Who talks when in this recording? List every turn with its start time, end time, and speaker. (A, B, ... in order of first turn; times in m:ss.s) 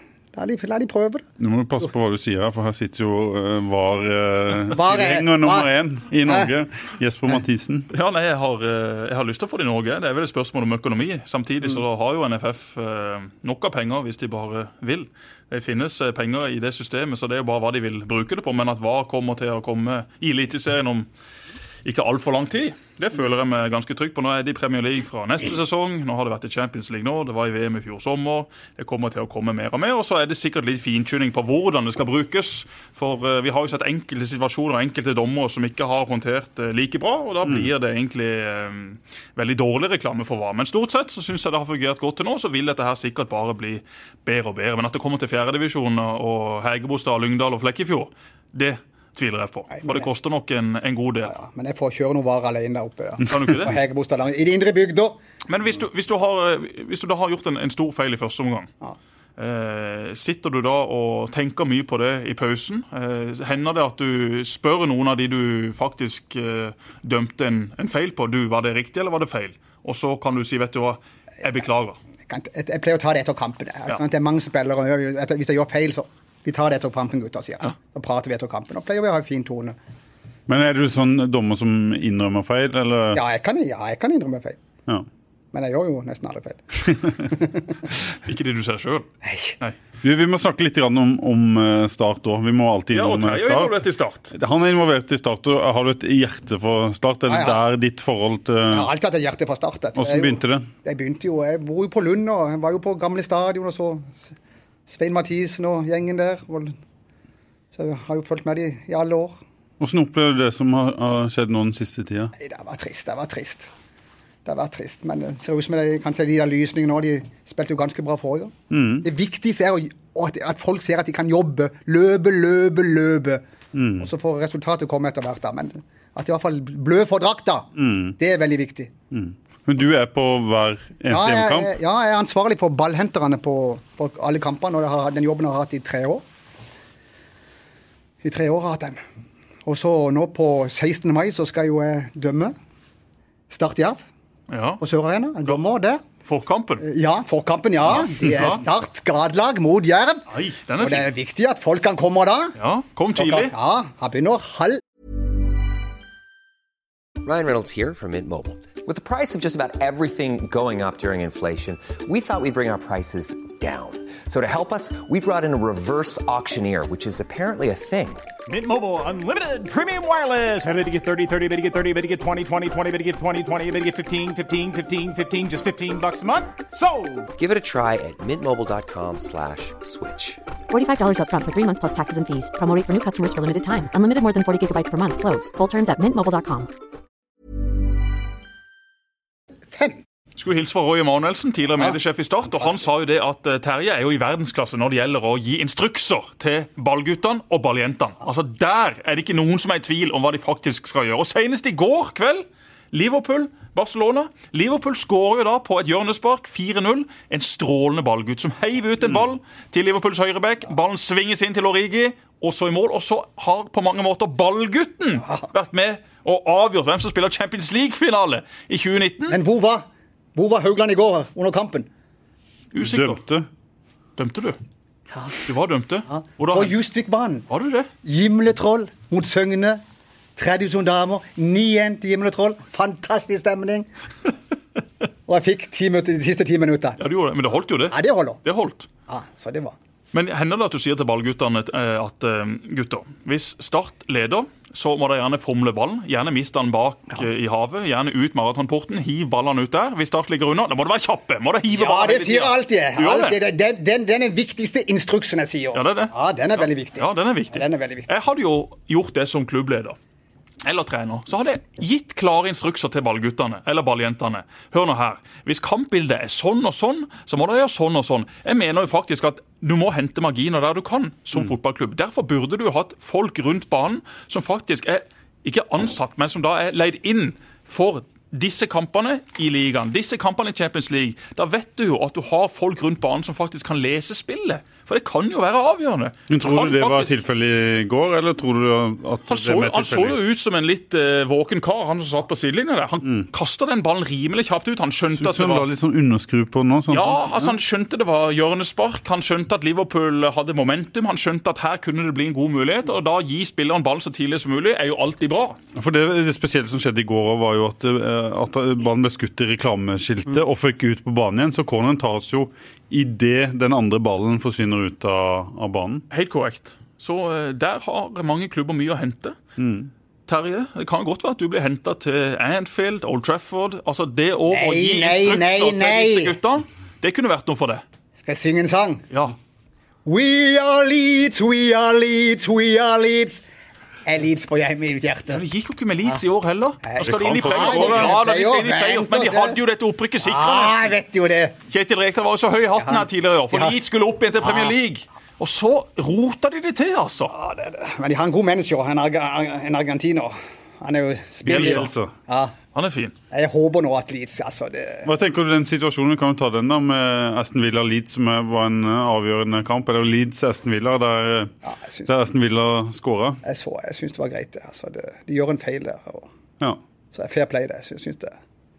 0:00.3-0:01.3 A
0:01.4-0:07.9 B
0:04.7-0:05.7 A
0:06.2-0:06.5 A
0:07.9-0:21.1 C
0:21.8-0:51.3 C
0:49.7-0:50.1 A
0:51.2-0:55.2 A
0:53.3-0:53.8 C
0:55.5-0:58.7 C
0:59.4-1:12.0 C
1:12.3-1:19.8 A
1:20.5-1:23.2 B
1:23.1-1:24.6 A
1:25.5-1:27.8 A
1:28.2-1:29.1 C
1:29.2-1:29.6 A
1:30.0-1:38.9 B
1:32.9-1:34.3 C
1:37.3-1:37.6 A
1:38.7-1:44.4 A
1:40.0-1:40.7 B
1:44.9-1:46.8 A
1:47.7-1:49.4 A
1:49.8-1:52.3 B
1:52.4-1:53.7 A
1:54.4-2:03.4 A
1:58.7-1:59.1 B
2:03.7-2:04.1 B
2:04.0-2:08.9 A
2:07.8-2:08.2 B
2:09.1-2:11.7 B
2:11.1-2:16.2 A
2:18.2-2:19.0 A
2:19.7-2:22.6 A
2:23.5-2:24.0 A
2:24.5-2:24.8 C
2:24.8-2:26.0 A
2:26.2-2:26.8 C
2:26.8-2:32.6 A
2:27.9-2:28.6 C
2:30.3-2:31.1 C
2:32.6-2:33.5 C
2:33.2-2:34.8 A
2:37.2-2:48.3 D
2:48.5-2:57.3 E
2:57.4-3:00.4 D
3:00.7-3:06.7 F
3:09.7-3:10.0 A
3:10.4-3:39.4 C
3:39.3-3:41.9 A
3:42.7-3:43.2 C
3:42.8-3:43.5 B
3:44.2-3:44.6 C
3:45.1-3:45.4 A
3:45.5-3:46.8 C
3:46.1-3:47.5 A
3:47.5-3:47.9 C
3:48.0-3:49.8 A
3:50.4-3:53.9 A
3:55.3-3:57.0 A
3:57.0-3:58.9 C
3:57.9-3:58.4 A
3:59.1-3:59.8 A
4:00.1-4:13.4 C
4:11.7-4:18.1 A
4:15.7-4:20.0 C
4:20.6-4:47.1 C
4:46.3-4:50.2 B
4:49.3-4:55.7 C
4:55.1-4:57.5 B
4:56.9-5:05.6 C
5:05.8-5:16.0 B
5:16.1-5:19.4 C
5:19.6-5:19.9 B
5:20.3-5:27.8 C
5:24.5-5:26.4 A
5:28.2-5:29.1 A
5:30.0-5:33.4 A
5:34.1-5:35.4 A
5:35.3-5:40.9 C
5:36.8-5:39.6 A
5:37.0-5:38.2 B
5:40.2-5:41.6 A
5:41.7-5:47.3 C
5:42.8-5:43.8 A
5:44.4-5:44.8 A
5:47.3-5:52.5 A
5:51.5-5:51.9 C
5:51.5-5:52.1 B
5:52.7-5:53.1 C
5:53.3-5:55.1 A
5:55.0-6:01.5 B
6:01.6-6:02.1 A
6:02.1-6:03.4 B
6:03.4-6:06.3 A
6:07.1-6:08.4 A